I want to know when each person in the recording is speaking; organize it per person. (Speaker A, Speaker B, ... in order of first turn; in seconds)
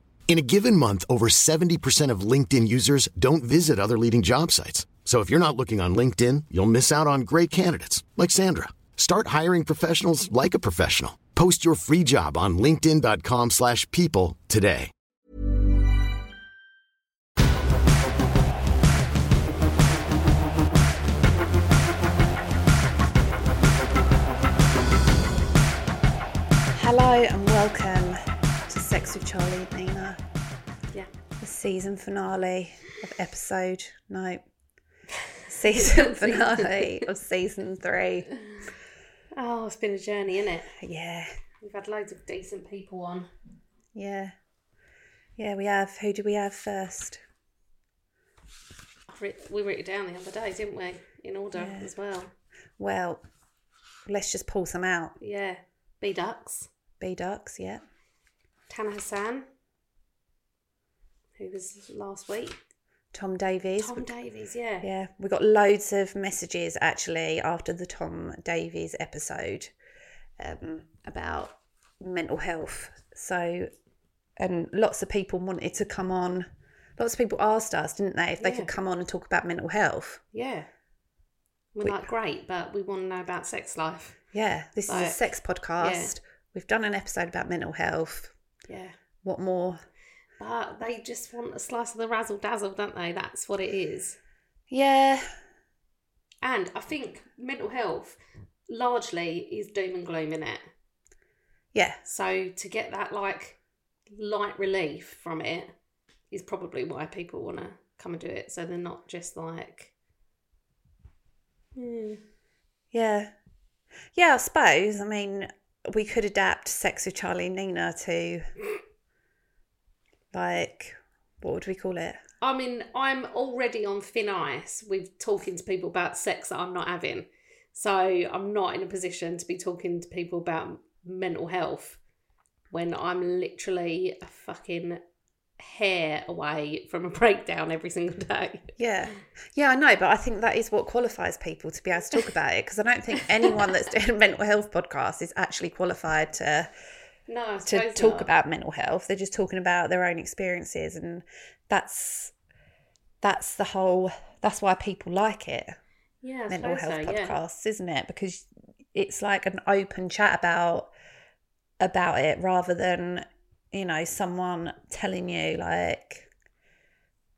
Speaker A: 0.3-14.9
Speaker B: 26.7-30.2, 31.4-34.4, 35.5-38.3, 40.8-41.3, 44.0-44.3, 45.4-47.2, 51.5-51.9, 52.8-53.2, 54.1-55.2, 57.0-57.8, 63.1-64.1, 64.8-69.7, 70.4-73.7, 74.4-80.2, 81.8-82.1, 84.3-88.3, 89.2-89.8, 94.7-95.3, 101.7-102.0, 112.9-113.3, 114.1-118.5, 120.3-122.2, 138.8-146.7, 147.7-152.3, 153.2-155.8, 156.5-160.9, 161.8-166.3
Speaker C: 35.6-37.0, 39.3-40.7, 41.6-43.3, 49.1-52.3, 55.2-56.7, 58.7-59.5, 61.4-62.6, 63.8-64.9, 78.4-78.7, 80.3-80.7, 81.8-84.2, 84.9-85.2, 85.8-86.1, 88.7-89.0, 90.4-94.2, 96.4-98.2, 98.7-100.7, 102.1-103.6, 104.1-105.7, 106.3-109.9, 111.8-112.2, 122.4-132.0, 132.7-135.0, 135.6-138.7, 147.3-148.3, 156.2-157.4